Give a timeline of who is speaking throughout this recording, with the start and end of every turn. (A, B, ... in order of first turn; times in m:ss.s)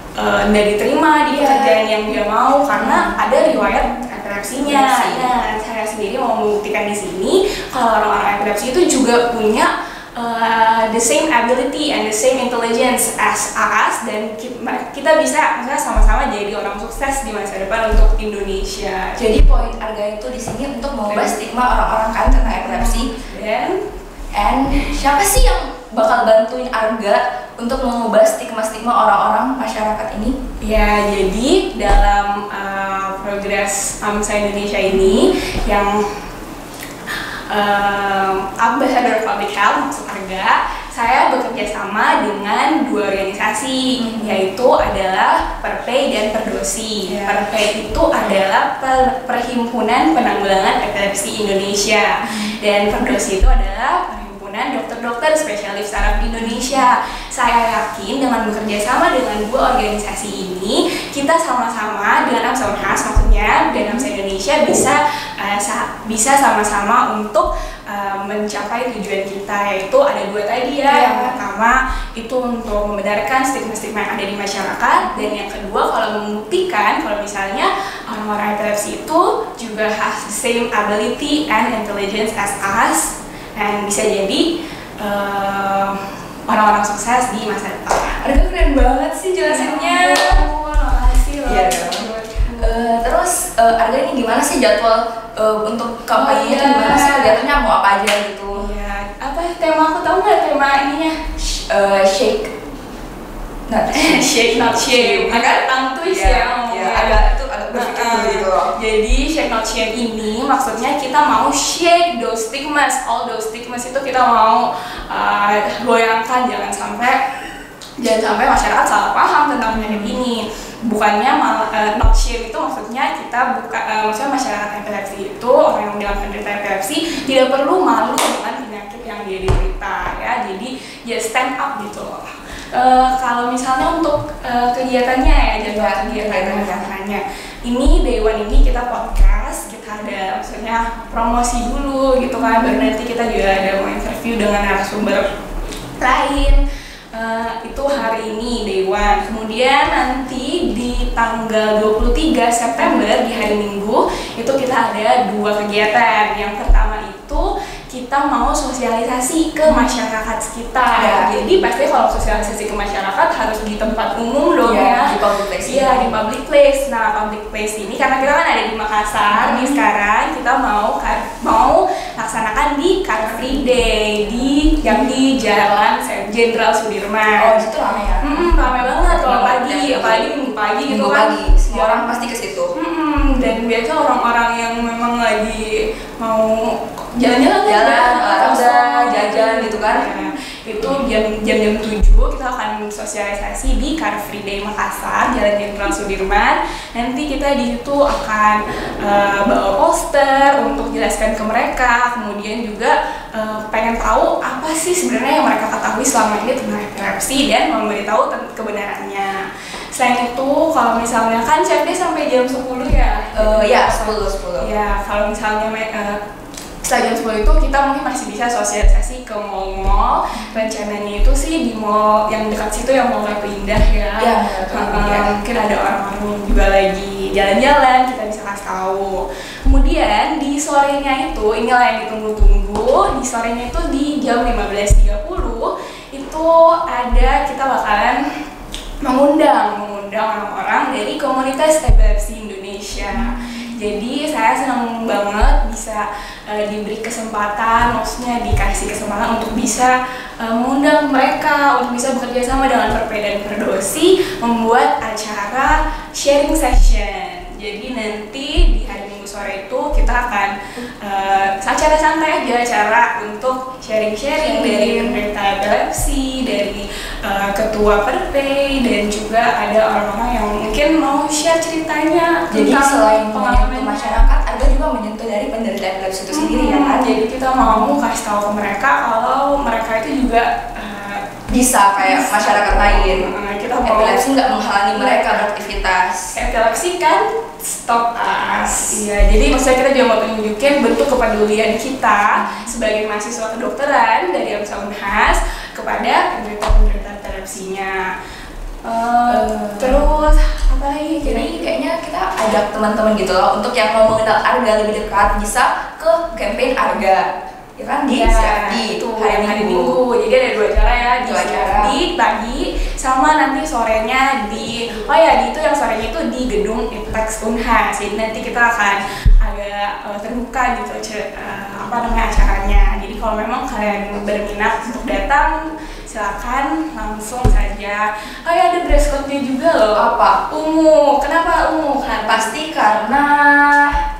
0:00.2-0:19.2 A
0:01.3-0:02.1 B
0:02.7-0:04.0 B
0:04.5-0:05.3 B
0:19.2-0:23.1 B
0:21.1-0:21.4 A
0:22.6-0:23.8 A
0:24.3-0:30.4 B
0:30.6-0:36.0 A
0:34.9-0:35.3 B
0:37.5-1:24.4 A
0:44.0-0:44.4 B
0:47.0-0:47.5 B
0:52.3-0:52.6 B
0:56.3-0:56.9 B
1:10.8-1:11.4 B
1:15.0-1:15.3 B
1:25.0-1:28.2 A
1:28.2-1:30.5 B
1:29.4-1:33.0 A
1:31.4-1:38.7 B
1:36.1-1:37.4 A
1:38.6-1:41.2 A
1:41.4-1:42.5 B
1:43.7-1:44.3 B
1:43.9-1:47.2 A
1:44.8-1:48.7 B
1:47.7-1:57.2 A
1:58.0-2:25.3 A
1:59.7-2:00.2 B
2:15.6-2:16.9 B
2:22.6-2:22.9 B
2:26.0-2:26.6 A
2:27.1-2:57.6 A
2:39.6-2:40.0 B
2:40.9-2:41.8 B
2:44.6-2:46.1 B
2:49.3-2:49.9 B
2:53.4-2:55.2 B
2:57.4-3:00.3 B
2:58.2-3:36.2 A
3:00.9-3:02.7 B
3:07.6-3:10.1 B
3:33.3-3:34.7 B
3:36.8-3:58.2 A
3:44.2-3:45.3 B
3:59.0-4:34.3 A
4:24.4-4:25.2 B
4:32.5-4:37.0 B
4:36.3-4:41.5 A
4:37.6-4:37.9 B
4:41.5-4:43.3 B
4:42.0-4:44.3 A
4:43.8-4:46.3 B
4:44.9-4:45.6 A
4:46.3-4:58.1 A
4:48.4-4:49.0 B
4:52.3-4:52.7 B
4:58.8-5:01.7 A
4:59.3-5:00.1 B
5:01.2-5:10.0 B
5:08.1-5:32.5 A
5:11.2-5:12.0 B
5:14.6-5:15.2 B
5:29.9-5:30.4 B
5:32.3-5:34.0 B